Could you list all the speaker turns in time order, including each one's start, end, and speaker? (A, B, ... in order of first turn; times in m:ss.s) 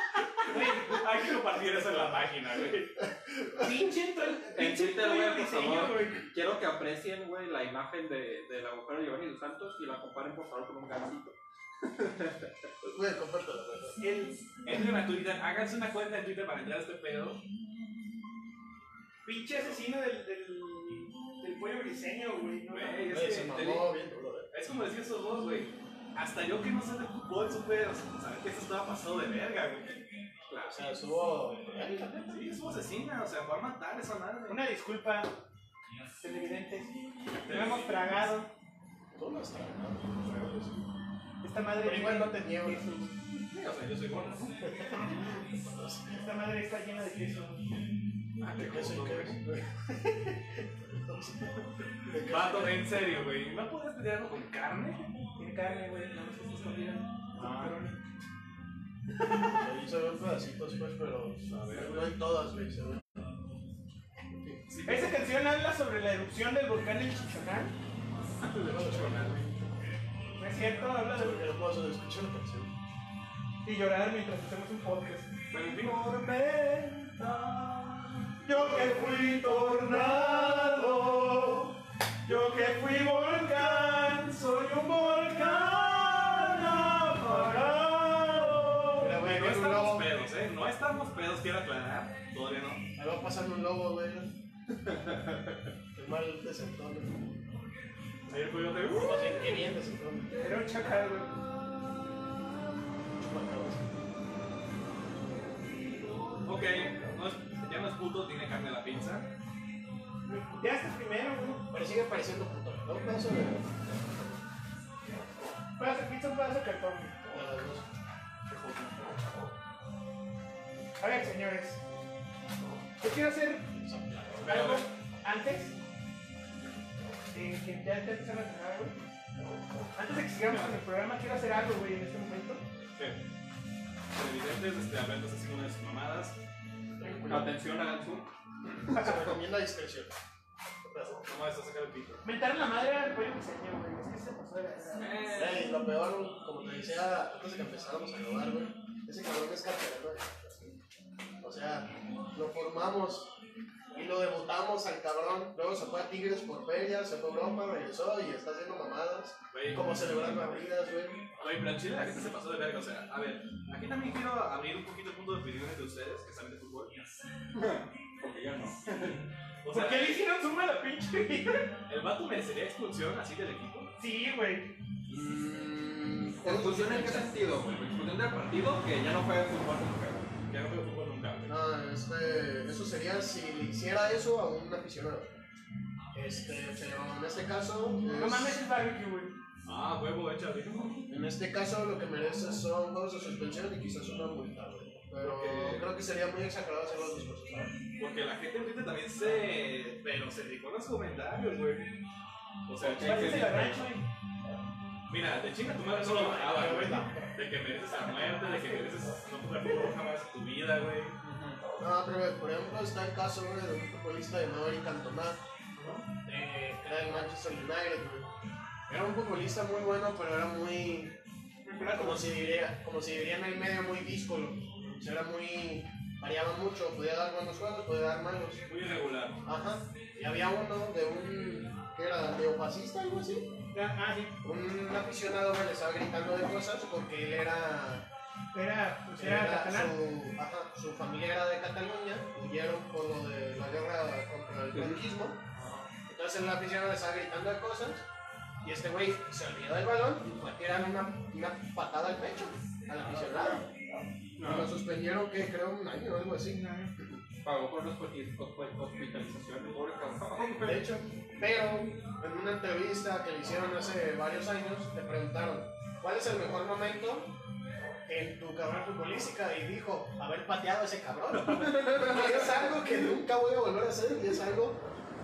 0:00.4-0:03.0 A
0:00.5-0:01.0 B
0:03.3-0:03.9 C
0:03.6-0:06.3 B
0:04.5-0:12.5 D
0:12.8-0:14.0 C
0:14.0-0:14.5 B
0:14.6-0:17.4 A
0:19.2-0:23.1 B
0:19.5-0:19.8 A
0:22.7-0:23.9 A
0:23.1-0:24.5 C
0:24.5-0:30.0 A
0:30.5-0:30.8 D
0:30.6-0:32.4 C
0:32.3-0:34.7 A
0:34.5-0:35.4 B
0:36.2-0:37.0 B
0:37.3-0:38.3 A
0:37.5-0:38.5 B
0:39.1-0:40.8 C
0:40.2-0:40.5 A
0:41.4-0:43.2 B
0:41.8-0:42.9 C
0:43.5-0:44.7 A
0:44.6-0:46.2 C
0:46.1-0:47.7 B
0:48.4-0:49.4 A
0:48.6-0:52.9 C
0:52.2-0:55.1 A
0:55.4-0:58.0 B
0:57.4-0:57.8 A
0:59.5-1:03.1 C
1:01.5-1:02.1 A
1:04.3-1:04.6 C
1:04.7-1:05.3 A
1:04.9-1:07.8 B
1:08.4-1:09.5 A
1:08.6-1:09.6 C
1:10.4-1:11.5 B
1:11.1-1:12.7 C
1:13.6-1:15.3 B
1:15.5-1:16.1 A
1:18.4-1:29.1 B
1:29.0-1:30.1 C
1:29.2-1:32.9 A
1:33.0-1:34.3 C
1:36.0-1:37.2 C
1:38.3-1:39.5 A
1:38.8-1:40.3 C
1:40.4-1:41.4 B
1:43.2-1:43.9 C
1:46.4-1:49.3 A
1:50.2-1:51.6 B
1:51.7-1:54.4 C
1:55.8-1:57.3 B
1:57.3-1:57.8 C
1:58.5-1:59.1 A
2:01.0-2:01.8 B
2:03.0-2:03.7 B
2:03.7-2:04.6 C
2:04.4-2:04.9 A
2:04.4-2:05.8 B
2:07.3-2:09.0 B
2:10.0-2:12.6 B
2:13.0-2:13.2 A
2:14.1-2:16.4 A
2:17.0-2:17.5 C
2:17.3-2:18.3 D
2:18.9-2:20.2 C
2:20.8-2:21.3 C
2:21.2-2:22.2 A
2:22.2-2:25.2 B
2:25.0-2:25.7 D
2:25.3-2:30.8 C
2:31.4-2:33.3 C
2:33.9-2:41.4 C
2:39.5-2:40.4 A
2:41.4-2:47.0 A
2:47.5-2:49.2 D
2:49.6-2:50.2 A
2:49.7-2:51.7 B
2:51.9-2:53.9 A
2:54.0-2:54.7 B
2:55.1-2:57.3 C
2:56.4-3:00.3 D
3:00.5-3:01.5 A
3:01.5-3:05.4 C
3:06.1-3:08.6 C
3:08.1-3:09.4 B
3:09.6-3:11.0 A
3:11.1-3:17.8 C
3:15.2-3:15.9 A
3:18.0-3:21.9 A
3:22.7-3:23.7 A
3:22.8-3:23.9 D
3:23.0-3:24.1 B
3:25.1-3:31.2 A
3:26.0-3:27.2 C
3:26.3-3:27.3 B
3:31.2-3:31.6 D
3:31.8-3:35.4 C
3:35.8-3:36.0 A
3:36.2-3:38.3 C
3:38.9-3:41.2 C
3:41.6-3:42.2 B
3:41.9-3:48.6 C
3:48.7-3:49.4 A
3:49.4-3:53.5 C
3:53.7-3:54.4 B
3:54.4-3:58.1 C
3:58.5-3:59.9 B
3:59.2-4:05.4 C
4:04.7-4:05.0 D
4:05.6-4:05.9 A
4:06.1-4:08.1 C
4:08.6-4:13.7 C
4:14.4-4:14.7 D
4:14.4-4:16.7 C
4:16.5-4:16.9 B
4:17.4-4:20.9 D
4:20.6-4:27.4 C
4:28.1-4:34.8 C
4:31.6-4:32.1 D